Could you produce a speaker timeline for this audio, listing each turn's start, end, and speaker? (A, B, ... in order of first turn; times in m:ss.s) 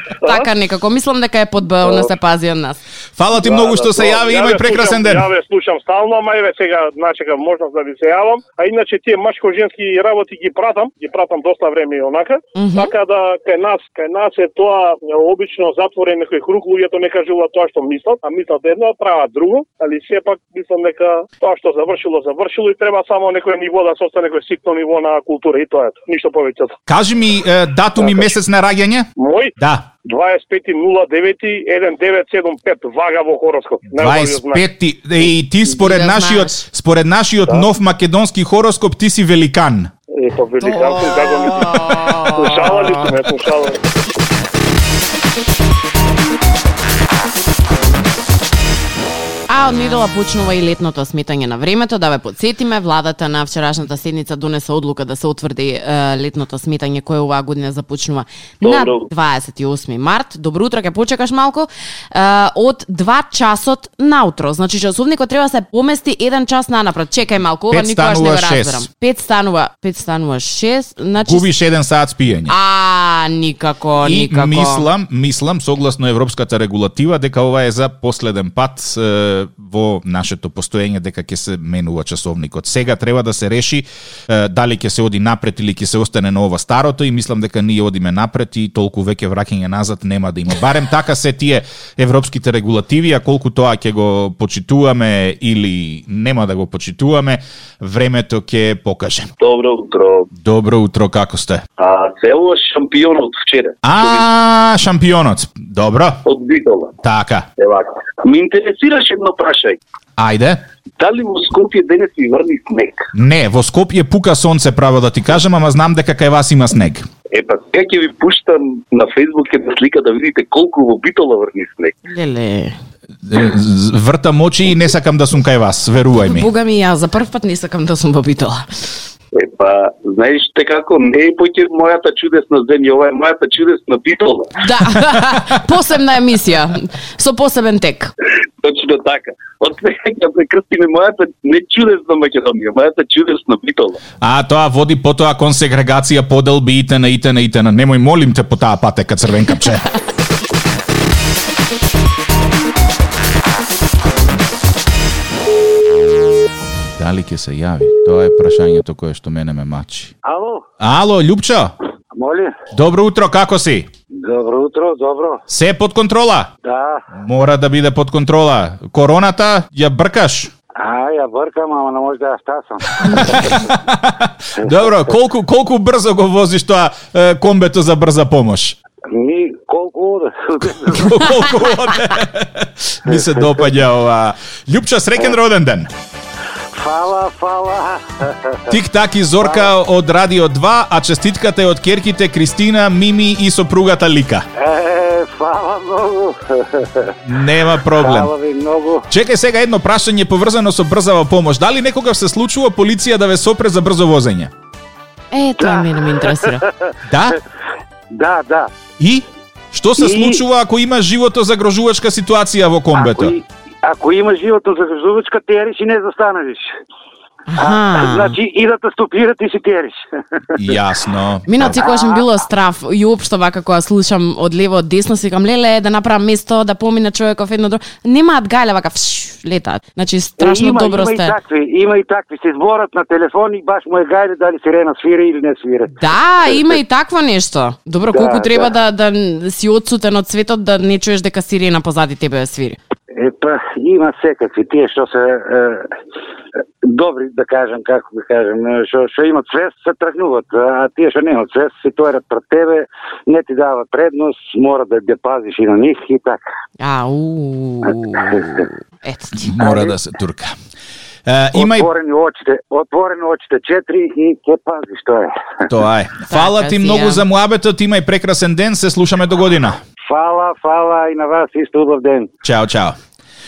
0:00.2-0:00.5 A
0:00.2-0:02.8 B
0:01.8-0:02.1 A
0:03.2-0:05.3 C
0:03.4-0:26.8 A
0:12.6-0:12.9 B
0:26.9-0:29.1 C
0:28.0-0:28.3 A
0:29.2-0:34.6 A
0:29.6-0:29.9 C
0:33.9-0:39.9 C
0:35.7-0:36.6 B
0:40.1-0:43.8 A
0:40.6-0:43.1 B
0:49.5-1:11.5 B
0:58.6-0:59.1 D
1:07.7-1:08.9 C
1:11.2-1:12.6 C
1:12.5-1:14.9 B
1:14.0-1:39.3 C
1:39.4-1:40.3 D
1:40.3-1:41.6 C
1:41.8-1:44.3 D
1:43.8-1:46.2 C
1:46.2-1:47.0 D
1:47.0-1:47.5 C
1:47.6-1:49.8 D
1:50.2-1:50.6 C
1:51.0-1:53.1 D
1:53.1-1:57.1 C
1:57.3-2:02.0 D
2:02.1-2:02.8 B
2:03.2-2:06.5 C
2:06.3-2:08.9 B
2:09.3-2:14.6 D
2:14.6-2:18.1 B
2:18.6-2:24.0 D
2:24.2-2:30.0 C
2:37.0-2:40.1 C
2:40.2-2:40.6 E
2:40.8-2:41.7 C
2:42.1-2:42.6 E
2:42.7-2:43.9 C
2:44.1-2:45.4 E
2:45.5-2:46.5 C
2:46.6-2:47.1 E
2:47.2-2:50.5 C
2:50.8-2:53.7 E
2:53.1-2:58.8 C
2:54.6-2:54.9 E
2:59.1-3:01.5 E
3:00.9-3:05.9 C
3:03.1-3:03.6 E
3:06.7-3:08.8 E
3:08.7-3:14.5 C
3:09.4-3:09.7 E
3:14.6-3:17.2 E
3:17.2-3:18.3 C
3:17.9-3:19.1 E
3:19.1-3:24.5 C
3:25.3-3:26.6 B
3:25.6-3:26.5 E
3:27.0-3:27.4 C
3:28.1-3:28.7 E
3:29.0-3:33.4 C
3:30.0-3:30.4 E
3:32.9-3:36.7 E
3:37.5-3:38.4 B
3:37.6-3:40.0 E
3:40.6-3:41.8 C
3:41.5-3:51.4 B
3:41.7-3:42.3 E
3:50.4-3:56.0 E
3:55.9-4:02.8 B
3:56.5-3:56.8 E
3:58.0-3:58.7 E
4:03.1-4:05.9 E
4:06.8-4:16.4 E
4:16.8-4:19.6 B
4:19.4-4:20.5 C
4:19.6-4:19.9 E
4:21.3-4:21.9 C
4:21.5-4:25.7 E
4:25.7-4:29.8 C
4:26.3-4:27.2 B
4:30.0-4:32.3 E
4:32.4-4:33.0 C